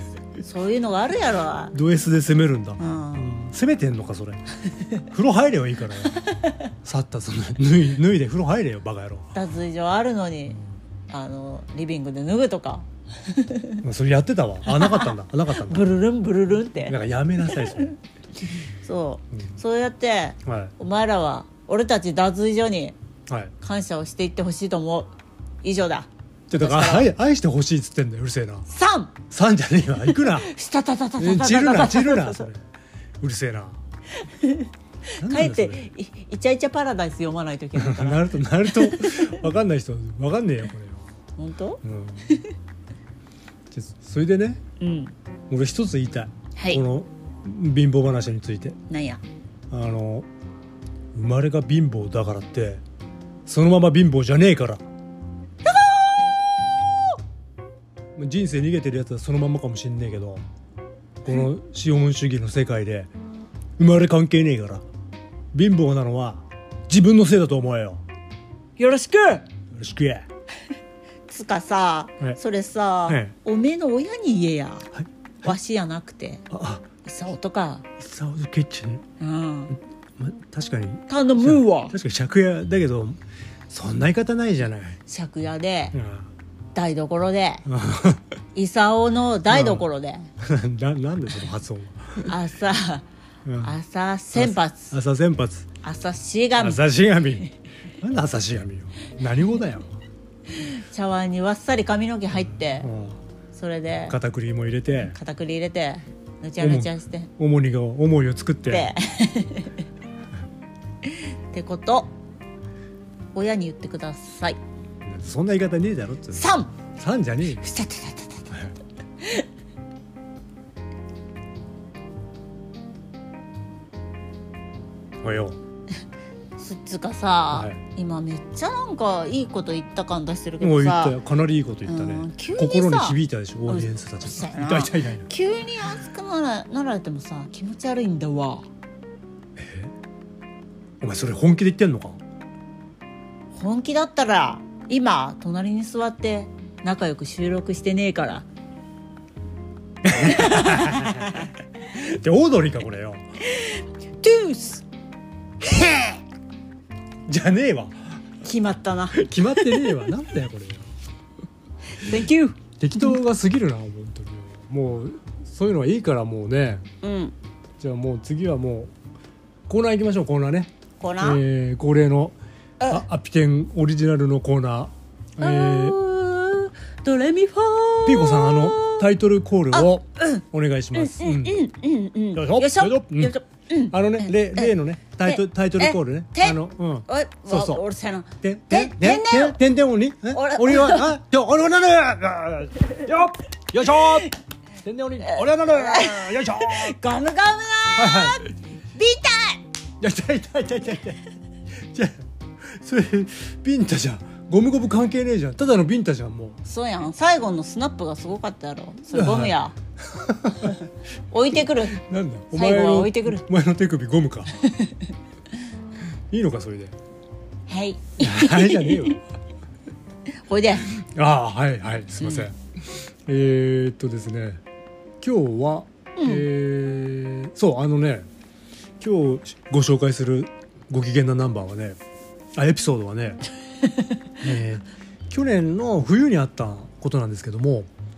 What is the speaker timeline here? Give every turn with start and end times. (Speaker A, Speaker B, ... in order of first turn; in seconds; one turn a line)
Speaker A: 0.4-1.7
Speaker B: 1.7-4.4
Speaker A: 2.8-3.3
Speaker B: 5.1-6.2
Speaker A: 6.2-6.6
Speaker B: 6.8-9.3
Speaker A: 9.3-13.8
Speaker B: 13.8-15.9
Speaker A: 14.7-17.9
Speaker B: 16.8-17.9
Speaker A: 18.8-22.9
Speaker B: 19.3-19.6
Speaker B: 20.4-20.7
Speaker B: 23.3-23.5
Speaker A: 23.6-25.1
Speaker A: 25.6-27.1
Speaker B: 26.5-28.7
Speaker A: 28.7-29.1
Speaker B: 29.3-30.5
Speaker A: 30.1-32.5
Speaker B: 31.2-32.6
Speaker B: 33.2-33.8
Speaker A: 34.2-39.4
Speaker B: 35.2-35.9
Speaker B: 37.8-41.1
Speaker A: 41.4-42.5
Speaker B: 41.8-42.4
Speaker B: 43.7-44.6
Speaker A: 44.8-45.1
Speaker B: 45.5-48.8
Speaker A: 46.5-46.8
Speaker A: 48.9-49.2
Speaker B: 49.7-50.3
Speaker B: 51.1-52.8
Speaker B: 53.5-54.8
Speaker A: 55.6-57.1
Speaker B: 58.1-60.4
Speaker B: 61.2-63.1
Speaker B: 63.8-64.8
Speaker B: 65.5-68.0
Speaker A: 68.8-69.5
Speaker B: 69.7-70.3
Speaker A: 71.3-74.9
Speaker B: 73.1-73.3
Speaker B: 74.9-75.5
Speaker A: 75.4-76.4
Speaker B: 76.5-76.8
Speaker A: 77.0-77.8
Speaker B: 78.0-79.0
Speaker A: 79.2-79.8
Speaker B: 80.2-85.0
Speaker A: 81.1-81.9
Speaker A: 85.1-86.0
Speaker B: 85.9-86.3
Speaker A: 86.7-87.6
Speaker B: 87.7-88.2
Speaker A: 88.5-90.3
Speaker B: 89.5-89.8
Speaker B: 90.4-92.3
Speaker A: 92.2-93.0
Speaker B: 93.4-93.8
Speaker A: 93.6-94.9
Speaker B: 94.3-95.7
Speaker A: 95.8-96.8
Speaker B: 96.6-97.5
Speaker B: 98.0-99.9
Speaker A: 100.5-102.9
Speaker B: 102.4-103.2
Speaker A: 103.5-104.2
Speaker B: 104.1-105.2
Speaker A: 105.1-107.3
Speaker B: 106.6-108.9
Speaker A: 108.7-109.8
Speaker A: 111.0-112.1
Speaker A: 113.3-114.6
Speaker B: 115.0-117.6
Speaker A: 116.3-116.7
Speaker A: 117.6-118.6
Speaker A: 119.2-119.5
Speaker B: 125.2-125.6
Speaker A: 126.6-131.2
Speaker B: 127.5-127.8
Speaker B: 130.6-135.3
Speaker A: 131.9-138.7
Speaker B: 139.6-139.9
Speaker B: 141.0-142.2
Speaker A: 143.5-148.4
Speaker B: 150.0-153.2
Speaker A: 150.1-151.5
Speaker A: 153.4-154.8
Speaker A: 155.7-156.1
Speaker B: 157.3-158.2
Speaker A: 158.4-160.0
Speaker B: 159.1-160.9
Speaker A: 161.9-163.1
Speaker B: 162.8-166.8
Speaker A: 167.0-167.3
Speaker B: 167.8-168.9
Speaker B: 169.7-172.3
Speaker A: 171.0-171.4
Speaker B: 172.9-176.0
Speaker A: 175.4-179.1
Speaker B: 178.0-181.6
Speaker A: 179.7-189.6
Speaker B: 182.3-183.3
Speaker B: 183.9-187.8
Speaker B: 188.4-194.3
Speaker A: 190.3-191.1
Speaker A: 193.9-194.3
Speaker B: 194.8-196.9
Speaker A: 195.2-199.6
Speaker B: 197.9-198.4
Speaker B: 200.0-201.2
Speaker B: 201.7-206.6
Speaker A: 206.6-209.7
Speaker B: 209.1-210.9
Speaker A: 211.3-212.0
Speaker B: 211.7-214.6
Speaker A: 212.5-213.4
Speaker A: 214.6-215.1
Speaker B: 216.3-216.9
Speaker A: 217.7-219.2
Speaker B: 218.2-219.2
Speaker A: 220.5-220.9
Speaker B: 220.9-224.6
Speaker A: 222.2-222.5
Speaker B: 225.2-228.3
Speaker A: 226.2-226.5
Speaker B: 229.0-232.0
Speaker B: 232.6-233.4
Speaker A: 233.8-234.2
Speaker B: 234.4-237.9